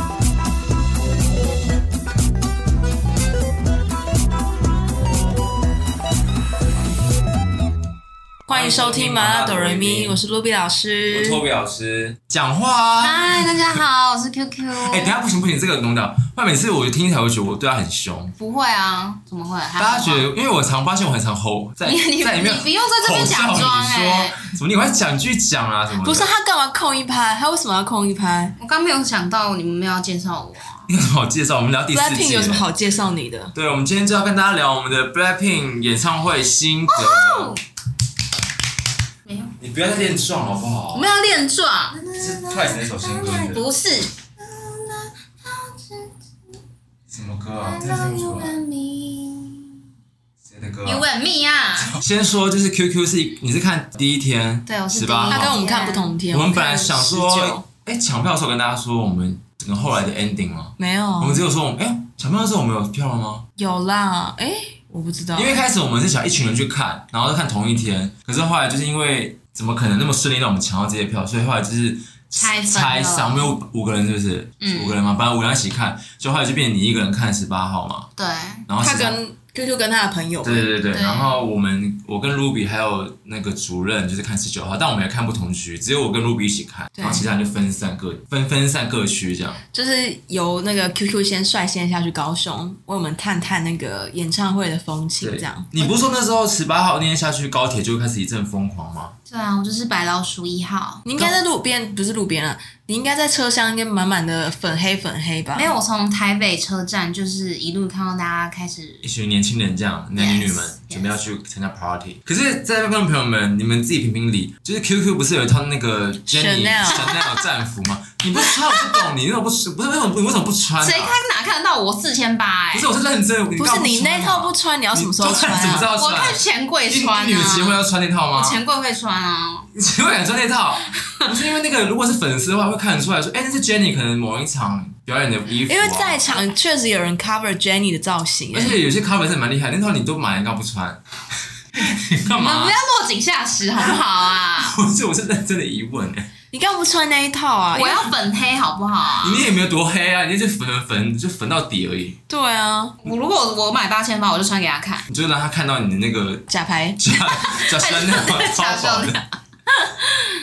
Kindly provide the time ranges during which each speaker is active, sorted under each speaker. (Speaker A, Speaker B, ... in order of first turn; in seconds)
Speaker A: 8.4-11.4, 26.0-28.5, 31.9-33.5, 55.3-57.6, 60.8-61.4, 63.6-65.6, 78.8-80.7, 87.0-87.2, 89.7-95.7, 101.0-105.7, 116.3-117.0, 123.6-125.9, 135.7-138.8, 146.5-148.1, 152.3-153.0, 156.5-157.4
Speaker B: 8.5-10.2, 11.1-13.8, 14.7-18.3, 19.8-26.3, 30.9-32.7, 33.5-37.5, 39.6-41.1, 42.2-43.6, 47.1-48.6, 50.4-51.0, 51.8-55.6, 56.3-63.4, 65.3-78.1, 78.7-79.2, 80.4-89.6, 95.2-99.1, 109.0-121.2, 122.7-128.6, 129.7-136.2, 138.5-141.0, 141.7-142.8, 144.6-146.3, 149.2-152.2, 155.1-159.2
Speaker C: 13.0-15.2, 18.4-20.3, 21.8-24.5, 28.6-30.9, 36.9-37.6, 39.2-39.5, 40.9-46.2, 47.6-49.8, 50.8-52.0, 54.7-56.2, 72.3-73.5, 74.6-75.0, 78.2-78.7, 80.9-81.3, 99.3-101.2, 105.5-109.0, 110.1-111.1, 117.0-117.5, 118.3-119.0, 120.8-122.9, 125.9-129.7, 142.3-144.8, 147.7-149.5, 153.0-155.1, 157.5-159.3